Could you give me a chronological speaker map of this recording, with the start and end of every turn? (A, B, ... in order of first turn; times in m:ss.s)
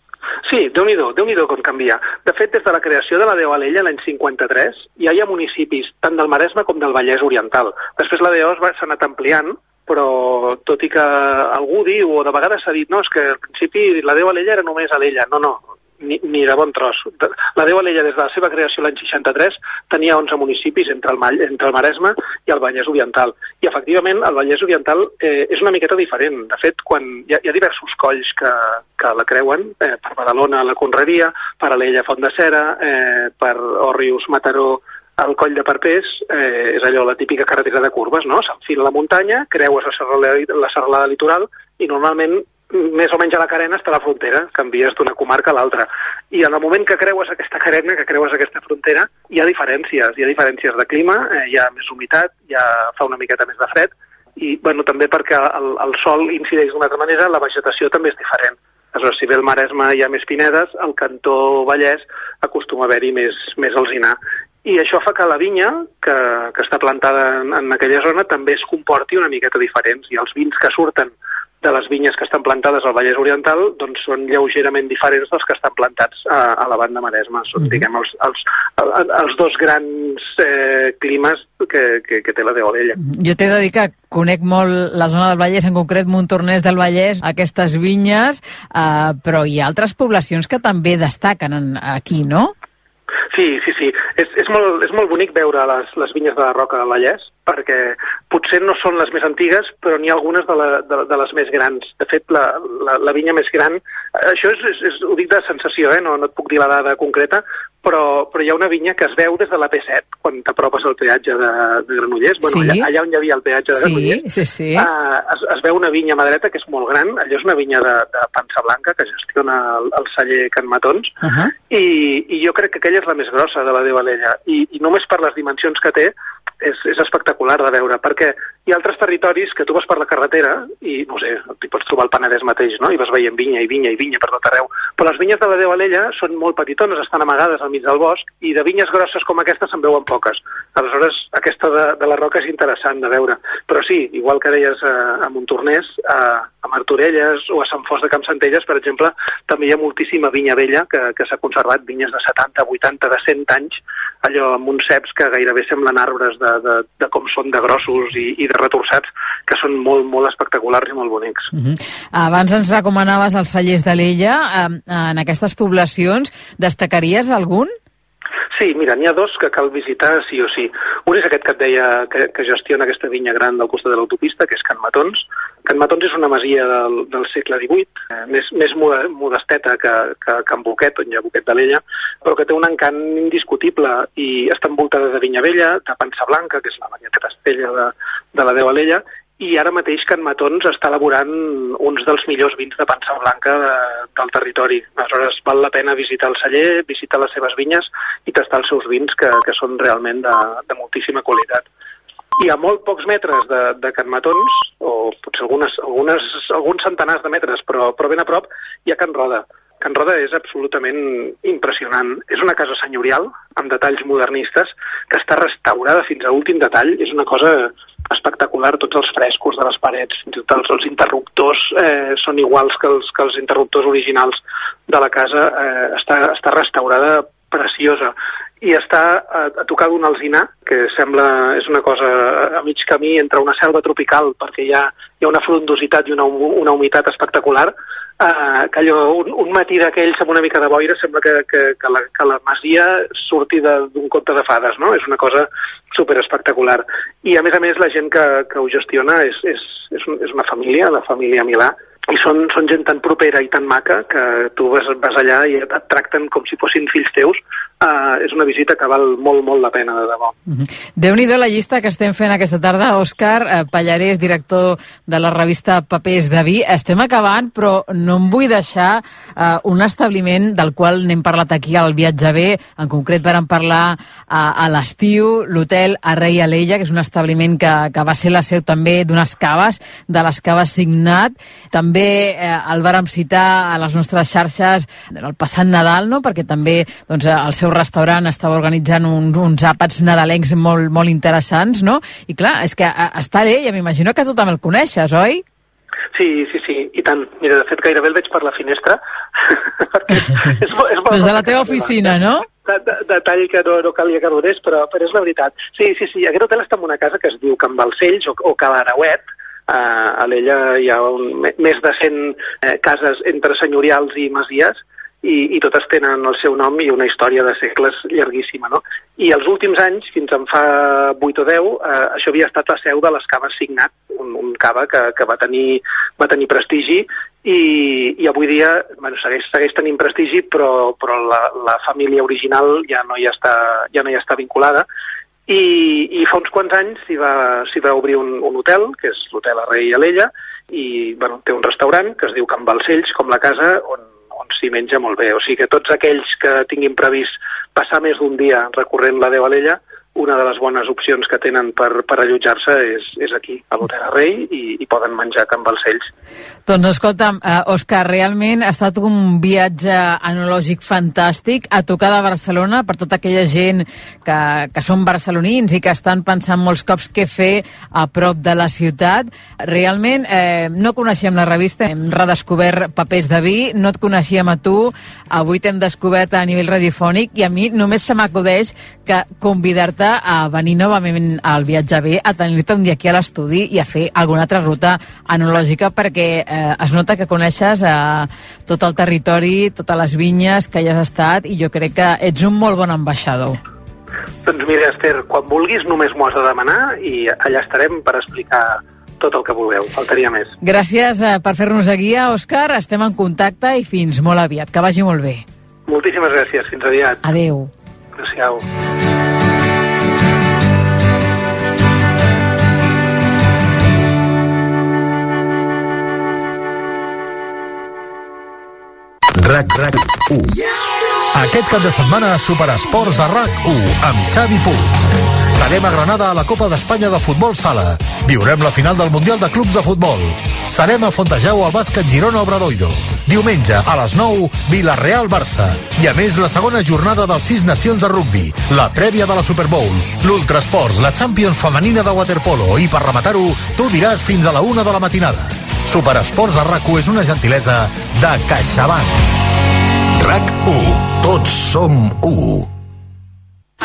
0:00.4-1:23.0 A
1:23.0-1:32.5 B
1:33.3-1:54.2 A
1:52.4-1:52.9 B
1:53.7-1:54.9 B
1:54.8-2:01.1 A
2:01.2-2:01.5 B
2:01.7-2:41.5 A
2:41.5-2:47.7 B
2:48.5-3:21.6 A
3:22.4-4:20.3 A
4:20.5-4:55.4 B
4:56.1-5:34.8 A
5:01.1-5:02.4 B
5:35.5-5:56.1 A
5:56.7-6:33.6 B
6:34.4-6:40.5 A
6:40.6-6:45.4 B
6:45.9-6:47.2 A
6:47.2-6:47.7 B
6:48.2-6:48.6 A
6:59.3-7:00.6 C
7:01.3-7:29.2 C
7:30.2-7:32.7 C